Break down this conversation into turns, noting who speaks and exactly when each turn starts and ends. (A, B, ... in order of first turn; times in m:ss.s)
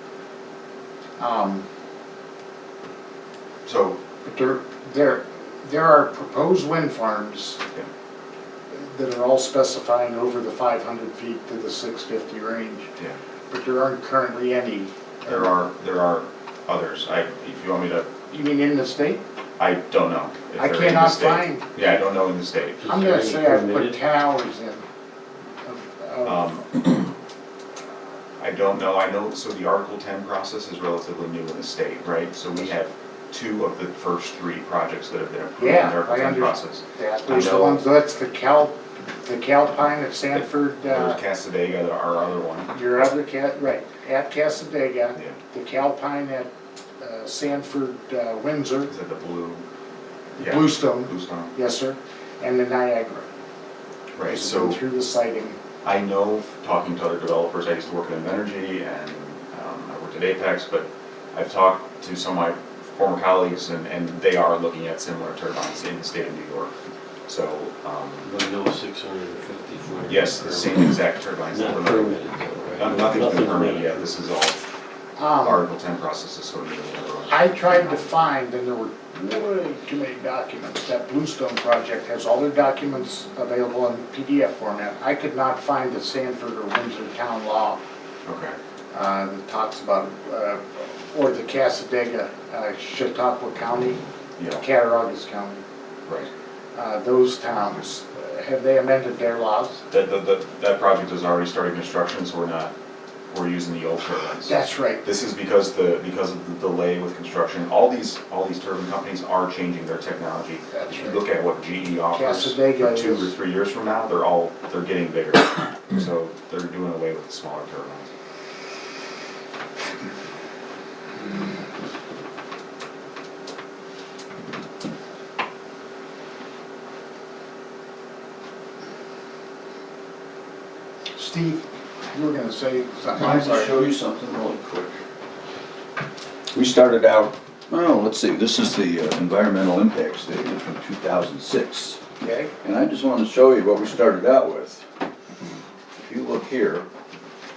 0:01.2-0:01.7 A
0:03.6-0:04.0 B
0:04.2-0:07.6 A
0:08.7-0:12.9 A
0:13.5-0:15.5 A
0:15.2-0:18.2 B
0:18.3-0:19.2 A
0:19.6-0:22.9 B
0:20.6-0:21.9 A
0:22.8-0:24.0 C
0:22.8-0:24.8 A
0:25.6-0:26.5 A
0:26.2-0:27.1 B
0:28.4-0:37.8 B
0:35.6-0:41.2 A
0:40.9-0:42.7 B
0:42.7-0:48.9 A
0:48.9-0:49.6 B
0:50.4-0:51.5 B
0:50.4-0:53.3 A
0:54.2-0:54.8 B
0:54.3-0:55.6 A
0:55.8-1:06.7 B
1:07.3-1:08.3 B
1:08.2-1:14.0 C
1:10.1-1:14.6 B
1:15.2-1:15.6 A
1:15.4-1:18.0 B
1:17.3-1:27.8 A
1:28.2-1:28.6 B
1:28.9-1:34.0 A
1:34.4-1:34.6 B
1:34.6-1:35.6 A
1:36.8-1:39.8 A
1:39.9-1:42.7 B
1:43.3-1:58.1 B
1:44.4-1:45.0 A
1:50.7-1:51.2 A
1:52.1-1:53.3 A
2:11.2-2:13.9 A
2:13.2-2:15.0 D
2:16.5-2:22.0 D
2:22.2-2:22.5 A
2:22.6-2:24.8 D
2:26.0-2:26.9 D